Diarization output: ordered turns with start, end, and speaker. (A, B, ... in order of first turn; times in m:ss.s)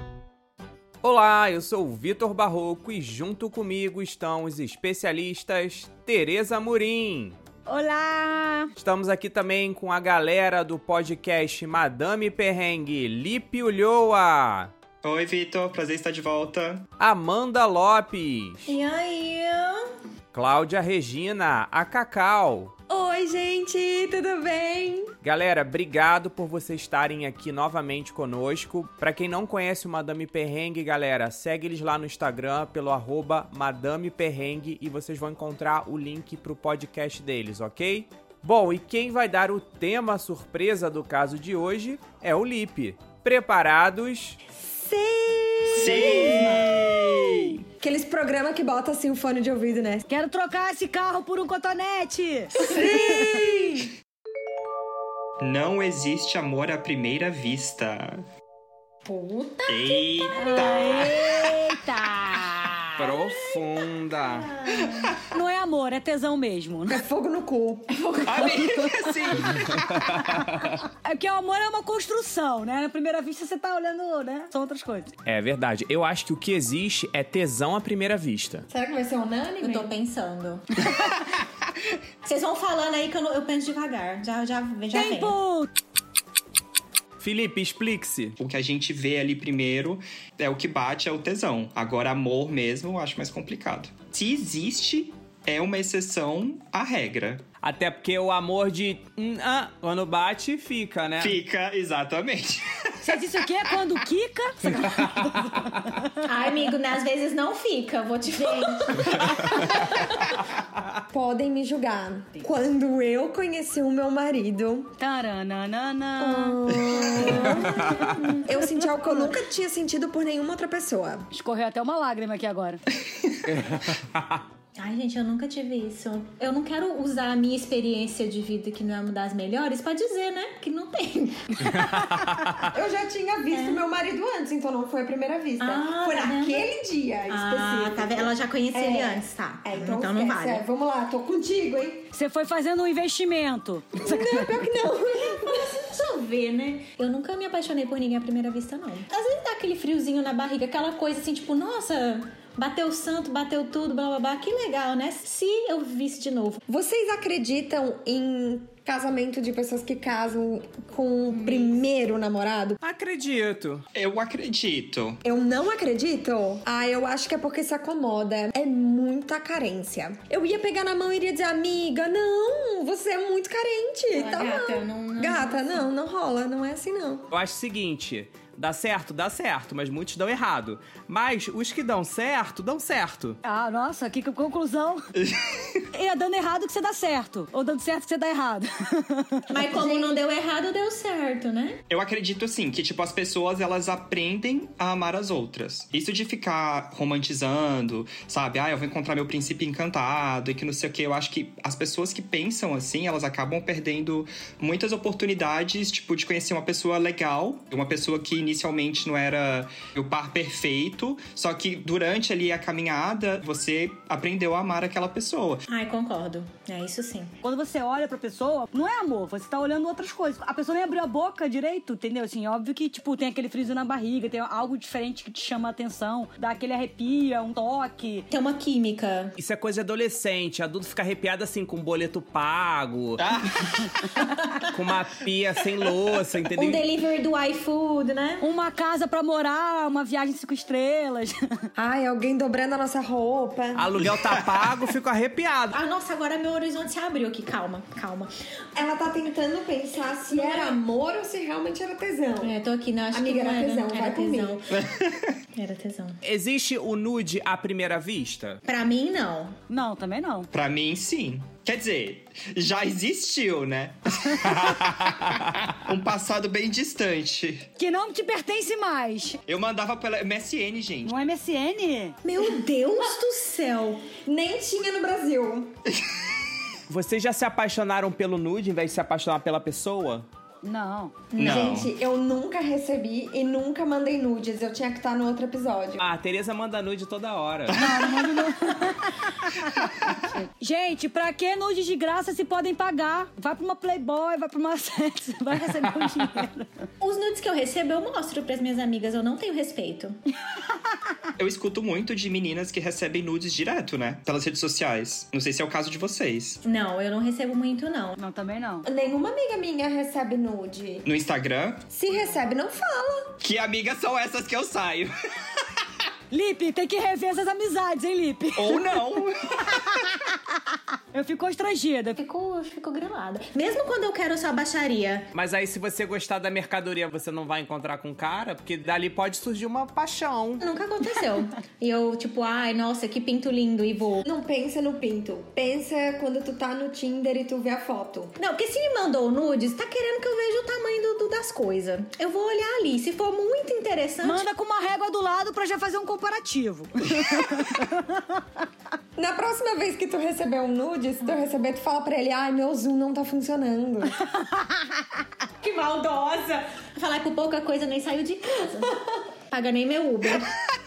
0:01.0-0:07.4 A
0:07.7-0:08.7 B
0:08.8-0:14.7 A
0:15.0-0:16.9 C
0:17.0-0:18.8 A
0:18.7-0:19.8 D
0:20.3-0:22.7 A
0:22.9-0:25.1 E
0:25.2-0:44.4 A
0:44.6-0:50.0 E
0:45.8-0:46.8 D
0:45.8-0:47.6 C
0:50.1-0:53.5 B
0:52.6-0:53.9 E
0:55.4-0:58.2 C
0:59.2-1:00.0 D
0:59.6-1:01.3 C
1:00.4-1:02.8 B
1:03.0-1:04.5 A
1:04.4-1:05.0 D
1:05.3-1:07.0 B
1:06.9-1:08.6 E
1:08.2-1:09.8 C
1:08.3-1:09.0 B
1:09.6-1:10.8 A
1:11.0-1:15.1 B
1:15.2-1:18.6 A
1:18.7-1:19.9 E
1:19.6-1:20.9 D
1:22.2-1:25.4 D
1:24.9-1:25.7 B
1:27.2-1:28.4 A
1:28.4-1:37.4 C
1:37.6-1:41.4 A
1:41.2-1:42.6 C
1:43.0-1:46.1 B
1:46.2-1:50.2 D
1:51.1-1:55.0 E
1:55.0-1:57.6 B
1:56.2-1:57.9 E
1:57.3-1:58.6 D
1:58.4-2:01.3 E
1:58.7-1:59.3 B
2:01.3-2:02.8 B
2:03.5-2:04.0 A
2:04.8-2:11.7 D
2:11.7-2:12.7 A
2:12.6-2:22.1 E
2:13.5-2:13.8 D
2:15.6-2:16.7 D
2:17.3-2:20.6 D
2:22.1-2:24.5 B
2:24.0-2:25.8 E
2:25.6-2:36.6 D
2:36.7-2:42.8 E
2:41.4-2:41.7 D
2:42.8-2:43.9 A
2:43.9-2:45.2 C
2:45.2-2:57.3 E
2:54.1-2:55.8 D
2:57.3-3:03.4 A
3:03.4-3:05.0 B
3:05.2-3:05.6 C
3:05.9-3:09.4 B
3:09.5-3:11.8 D
3:09.6-3:10.2 E
3:11.9-3:35.6 C
3:35.7-3:37.3 D
3:37.4-3:48.2 B
3:48.3-3:49.4 D
3:49.4-3:53.2 A
3:53.2-3:54.0 C
3:54.6-3:56.8 A
3:56.6-3:58.5 D
3:58.4-4:01.6 B
4:01.8-4:03.9 E
4:03.8-4:05.8 A
4:05.7-4:08.3 D
4:08.8-4:12.5 E
4:10.4-4:10.8 B
4:12.4-4:14.7 D
4:13.1-4:14.6 E
4:14.7-4:15.3 C
4:15.6-4:16.2 D
4:16.2-4:18.6 A
4:18.6-4:19.6 D
4:19.7-4:20.5 B
4:20.5-4:24.7 C
4:24.9-4:25.3 A
4:25.8-4:27.7 C
4:27.8-4:29.4 B
4:29.5-4:31.2 C
4:31.1-4:32.2 B
4:32.2-4:34.0 D
4:34.1-4:35.7 E
4:36.9-4:40.3 A
4:40.6-4:41.2 B
4:41.3-4:46.0 E
4:41.4-4:41.9 C
4:46.0-4:47.8 A
4:47.8-4:56.9 B
4:57.0-5:00.2 D
5:01.4-5:06.6 C
5:06.6-5:08.2 D
5:08.2-5:08.8 B
5:08.8-5:11.0 E
5:11.1-5:11.9 C
5:11.9-5:13.3 E
5:13.4-5:15.1 C
5:16.3-5:19.0 B
5:18.6-5:19.8 C
5:21.1-5:22.2 B
5:22.2-5:25.3 D
5:25.3-5:30.6 A
5:30.6-5:34.3 D
5:34.2-5:38.3 E
5:38.4-5:44.5 D
5:44.2-5:48.4 B
5:49.2-5:54.2 E
5:55.6-5:58.9 D
5:59.5-6:00.5 D